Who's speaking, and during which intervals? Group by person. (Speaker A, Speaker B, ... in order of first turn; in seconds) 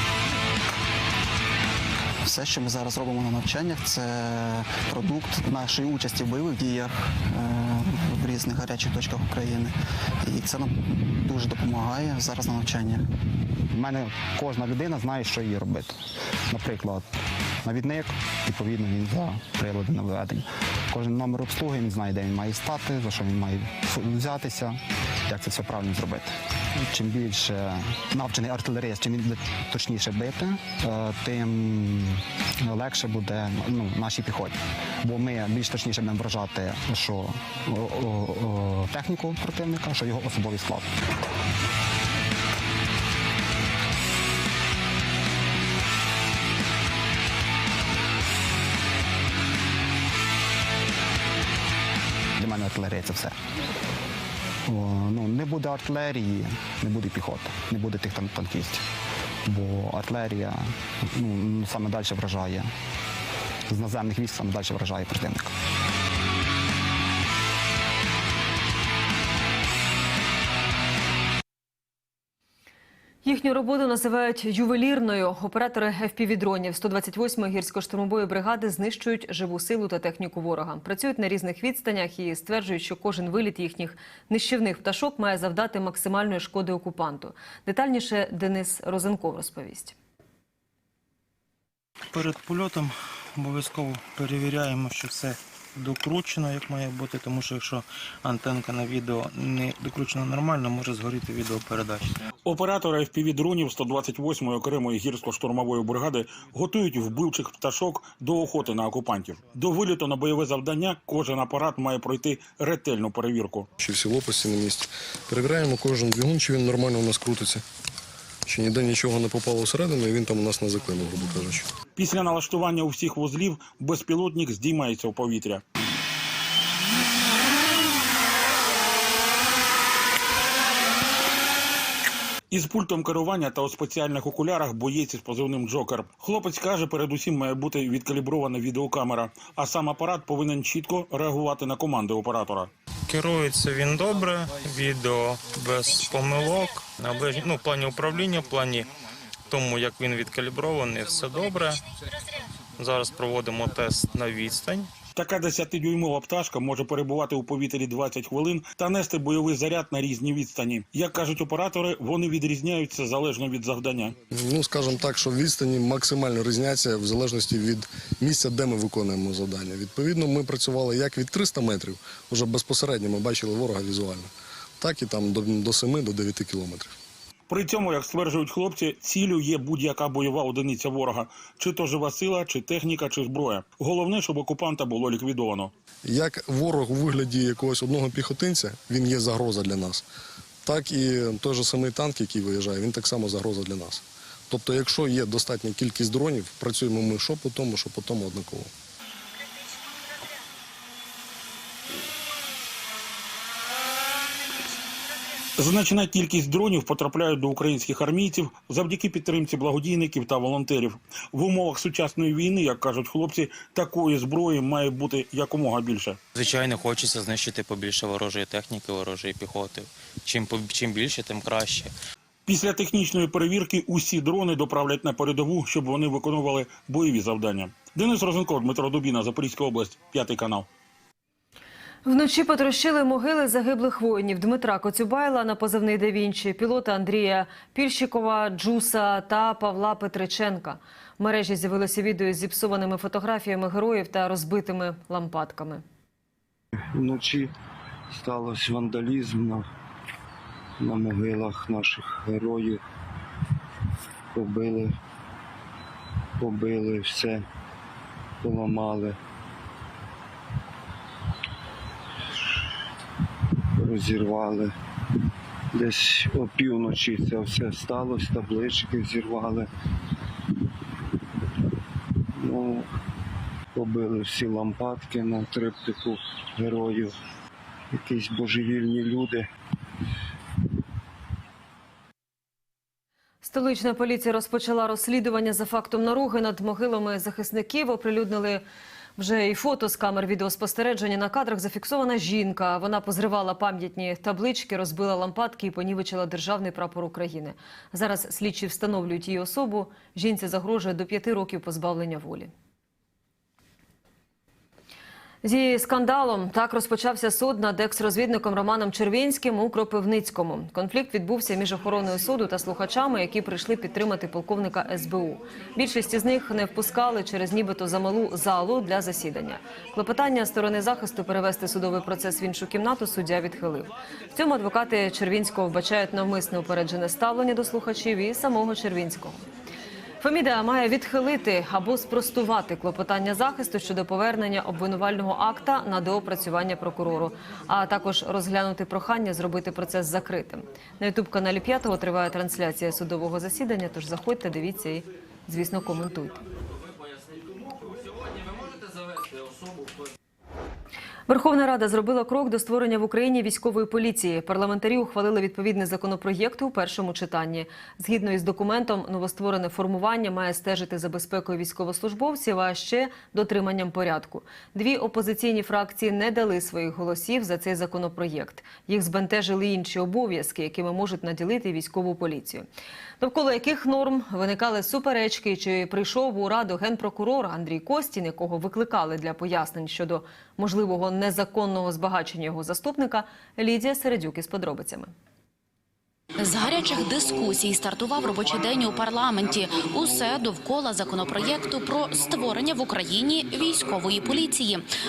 Speaker A: 2.2-13.1
Speaker B: 13.7-40.9, 52.4-53.4, 54.7-58.9, 59.5-62.7, 63.7-65.5
Speaker C: 73.2-90.0, 232.1-245.8, 283.4-288.6, 289.2-302.5, 305.4-329.4, 330.2-346.4, 351.3-372.7, 373.2-385.1
Speaker D: 92.1-102.2
Speaker E: 102.5-113.7, 122.0-125.6, 132.5-142.7, 155.2-164.2, 177.5-185.7, 205.6-216.2, 222.5-230.7
Speaker F: 113.8-117.6, 118.5-121.7, 164.3-176.9, 186.1-190.1, 190.6-198.7
Speaker G: 143.1-148.9, 149.5-151.8, 152.8-154.9, 216.3-221.9
Speaker H: 246.9-247.5, 248.1-249.7, 250.8-252.8, 254.3-254.9, 256.4-257.4, 258.4-259.2, 263.8-264.7, 265.7-269.7, 272.4-272.9, 273.8-277.1, 277.9-279.5
Speaker I: 387.8-388.2, 390.5-392.0, 393.8-394.6